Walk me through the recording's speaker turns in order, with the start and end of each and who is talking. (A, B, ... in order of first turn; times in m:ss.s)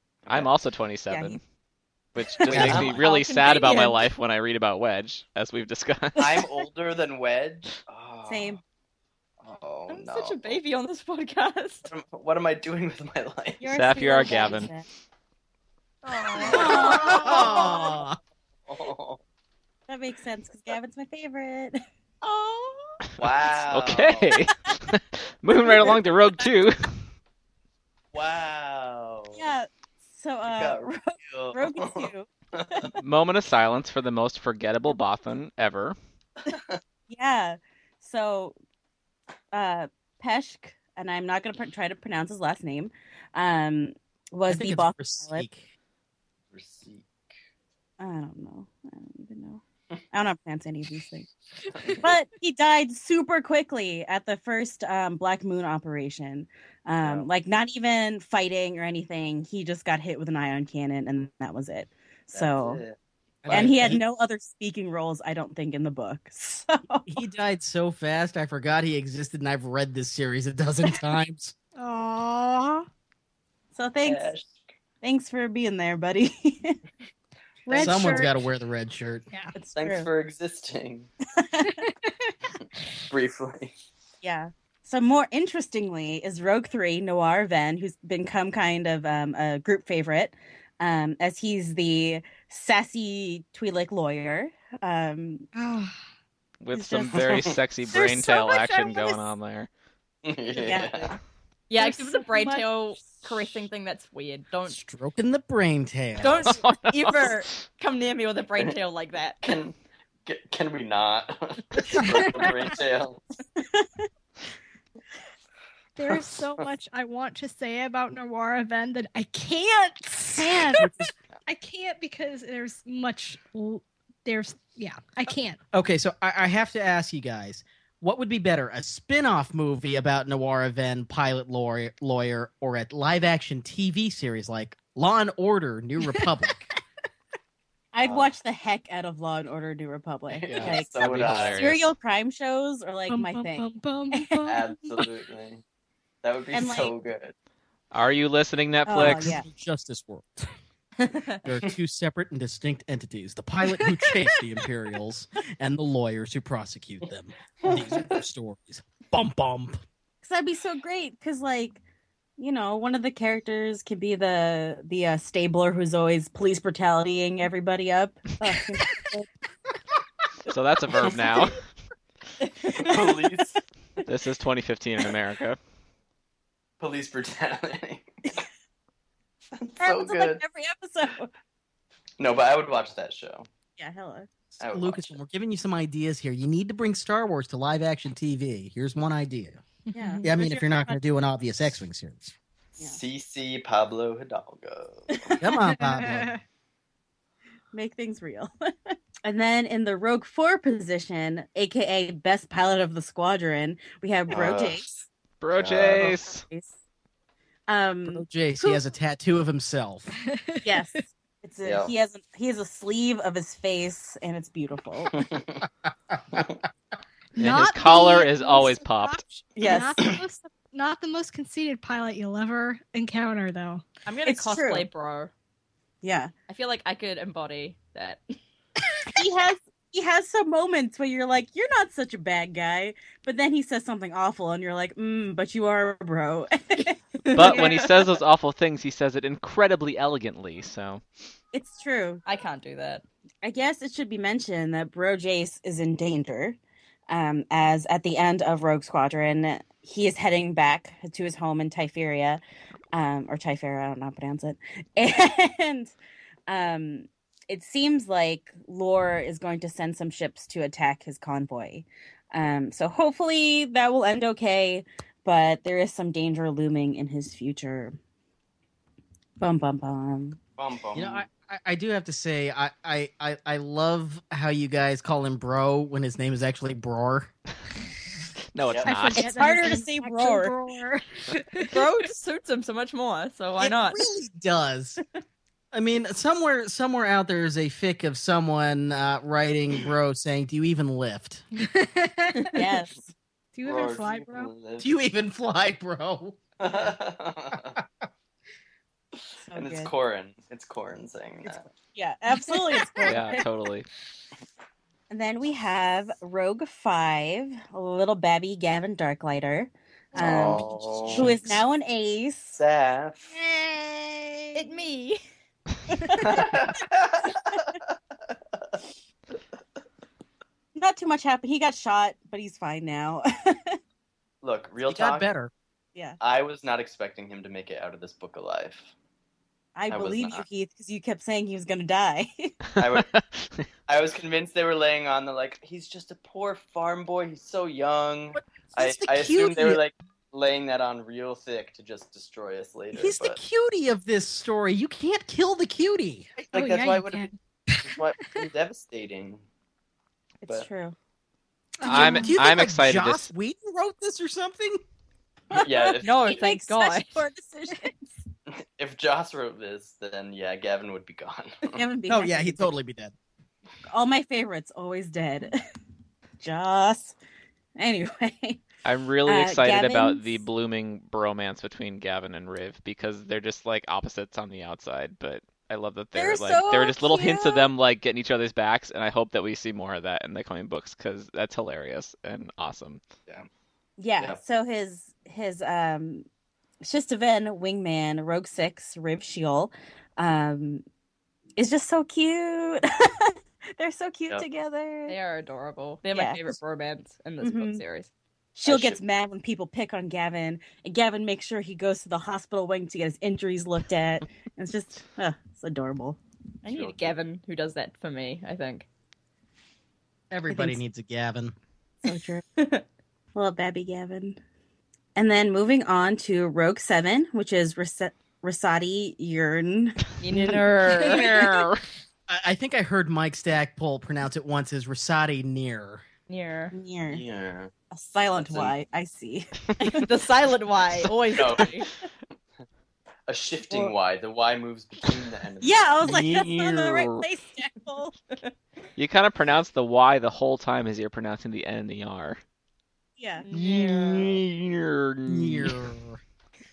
0:00.2-0:00.5 A
0:00.3-0:01.4 B
0:01.1-0:01.4 C
0:02.1-0:06.4 B
0:02.2-0:02.6 C
0:02.5-0:03.0 D
0:02.6-0:04.1 E
0:06.2-0:08.6 A
0:06.3-0:06.6 C
0:08.2-0:08.6 C
0:09.4-0:10.6 A
0:09.9-0:11.9 E
0:11.9-0:13.6 A
0:13.6-0:14.8 C
0:13.7-0:14.7 B
0:16.0-0:17.6 E
0:16.4-0:18.0 A
0:16.5-0:17.4 C
0:16.5-0:17.7 F
0:16.6-0:18.2 D
0:18.6-0:19.2 A
0:19.9-0:21.8 C
0:22.2-0:23.0 E
0:23.2-0:24.4 A
0:23.6-0:27.0 B
0:28.1-0:29.4 A
0:29.3-0:32.3 C
0:30.4-0:32.9 A
0:33.0-0:36.0 B
0:36.5-0:36.8 A
0:37.1-0:38.6 C
0:39.5-0:45.4 C
0:44.5-0:45.7 D
0:46.5-0:47.1 A
0:48.0-0:51.3 C
0:51.8-0:52.1 A
0:51.9-1:02.8 C
0:57.0-0:57.3 A
1:02.3-1:03.0 A
1:03.4-1:04.0 D
1:03.5-1:04.0 B
1:03.5-1:07.1 C
1:07.1-1:11.5 D
1:11.8-1:12.9 F
1:13.7-1:14.3 C
1:14.0-1:14.6 A
1:15.0-1:16.8 C
1:17.6-1:18.3 C
1:17.7-1:18.1 A
1:17.7-1:19.2 D
1:19.5-1:20.1 C
1:19.6-1:21.1 A
1:21.4-1:21.9 C
1:23.1-1:23.7 A
1:24.2-1:35.5 C
1:35.5-1:36.0 F
1:36.6-1:39.7 B
1:36.7-1:37.2 C
1:37.1-1:37.6 A
1:37.9-1:39.3 F
1:40.2-1:41.2 A
1:40.5-1:41.1 C
1:40.6-1:41.1 E
1:41.7-1:44.8 E
1:41.8-1:42.2 F
1:41.8-1:42.7 C
1:44.7-1:46.5 D
1:46.2-1:49.4 E
1:46.4-1:47.4 B
1:49.4-1:53.2 A
1:52.1-1:52.5 F
1:53.6-1:54.1 C
1:56.0-2:00.9 F
2:00.4-2:01.1 D
2:01.4-2:05.6 F
2:05.7-2:16.7 D
2:17.9-2:24.4 C
2:18.0-2:18.3 A
2:20.3-2:21.7 A
2:20.5-2:21.9 B
2:23.1-2:25.0 F
2:24.4-2:25.6 A
2:26.2-2:27.3 A
2:26.5-2:26.9 C
2:27.9-2:29.4 B
2:28.8-2:29.4 C
2:28.9-2:30.5 D
2:31.1-2:31.4 E
2:31.4-2:39.8 D
2:33.8-2:34.1 F
2:37.6-2:38.2 A
2:40.2-2:41.8 C
2:42.4-2:49.2 C
2:50.5-2:51.6 B
2:52.4-2:53.1 C
2:52.7-2:53.6 A
2:54.0-2:55.6 B
2:56.8-2:58.1 A
2:59.6-3:00.4 A
2:59.8-3:01.3 C
3:02.2-3:03.5 A
3:03.8-3:04.3 C
3:04.6-3:05.2 A
3:04.6-3:09.6 D
3:09.9-3:10.3 F
3:09.9-3:11.0 C
3:10.2-3:12.3 D
3:12.8-3:15.3 A
3:15.1-3:15.4 C
3:15.4-3:16.3 D
3:15.7-3:16.4 F
3:17.7-3:24.9 C
3:24.3-3:24.9 A
3:25.4-3:26.4 B
3:25.6-3:26.2 A
3:26.0-3:26.7 C
3:27.7-3:28.2 C
3:28.1-3:30.1 D
3:30.2-3:30.7 F
3:30.6-3:35.2 C
3:31.6-3:31.9 A
3:35.1-3:35.6 A
3:36.3-3:36.6 A
3:37.3-3:43.8 F
3:37.4-3:39.2 B
3:39.6-3:40.0 C
3:44.0-3:45.3 E
3:44.2-3:44.9 C
3:46.0-3:46.3 C
3:46.5-3:48.2 E
3:49.1-3:57.8 C
3:57.3-3:57.9 E
3:57.3-4:01.0 B
4:01.5-4:02.2 C
4:02.2-4:03.0 E
4:03.4-4:06.6 C
4:07.1-4:12.4 C
4:12.9-4:15.9 C
4:16.5-4:28.0 C
4:29.4-4:30.4 C
4:30.6-4:31.2 A
4:30.9-4:37.3 D
4:38.5-4:39.4 B
4:38.6-4:38.9 A
4:38.8-4:42.1 F
4:39.1-4:40.5 C
4:41.7-4:44.0 E
4:43.6-4:45.0 D
4:45.7-4:51.4 D
4:51.6-4:52.6 F
4:52.5-4:53.1 C
4:53.5-4:54.5 F
4:53.6-4:54.9 A
4:54.8-4:56.4 D
4:56.6-4:57.8 A
4:57.5-4:57.8 D
4:59.4-4:59.9 C
4:59.5-5:01.6 A
5:01.4-5:03.4 C
5:02.5-5:03.2 F
5:03.0-5:03.8 B
5:05.1-5:12.6 C
5:10.2-5:11.3 A
5:10.9-5:11.6 D
5:12.6-5:13.3 A
5:13.6-5:14.0 F
5:14.5-5:15.2 E
5:15.9-5:16.6 C
5:16.2-5:17.9 A
5:20.8-5:23.8 C
5:24.4-5:25.3 A
5:24.8-5:25.5 D
5:26.2-5:28.9 A
5:29.8-5:32.5 C
5:29.9-5:30.4 A
5:32.8-5:33.1 A
5:33.0-5:33.6 B
5:33.9-5:43.4 A
5:38.3-5:39.8 D
5:42.9-5:46.3 D
5:46.4-5:47.3 A
5:46.5-5:48.4 F
5:47.8-5:49.4 A
5:50.4-5:50.9 C
5:51.8-5:52.4 F
5:51.8-5:53.3 B
5:51.9-5:54.8 D
5:55.5-5:58.2 C
5:55.5-5:56.2 A
5:56.0-5:57.2 E
5:58.5-6:01.8 A
6:01.7-6:02.7 C
6:02.1-6:03.1 D
6:03.9-6:05.6 C
6:06.4-6:07.2 C
6:07.8-6:08.6 C
6:08.8-6:23.0 B
6:09.2-6:10.4 C
6:16.1-6:17.7 C
6:24.0-6:26.2 C
6:26.8-6:30.8 C
6:31.6-6:35.2 C
6:35.1-6:38.1 E
6:36.1-6:36.5 C
6:37.4-6:37.8 C
6:38.6-6:46.2 C
6:38.6-6:39.0 A
6:46.6-6:48.8 E
6:46.7-6:47.0 A
6:50.3-6:51.5 D
6:50.5-6:50.8 C
6:52.0-6:52.4 C
6:52.6-6:52.8 E
6:53.3-6:54.4 C
6:55.2-7:00.6 C
7:00.2-7:01.4 E
7:00.9-7:01.8 B
7:02.3-7:06.0 D
7:06.3-7:06.7 E
7:06.7-7:07.2 C
7:07.1-7:07.7 A
7:07.9-7:10.1 C
7:08.4-7:08.7 A
7:09.9-7:11.9 E
7:11.3-7:11.7 A
7:13.3-7:16.0 A
7:15.6-7:18.1 C
7:16.0-7:17.2 B
7:19.0-7:22.4 B
7:23.2-7:23.4 C
7:23.4-7:24.1 E
7:23.5-7:25.8 B
7:25.3-7:26.2 D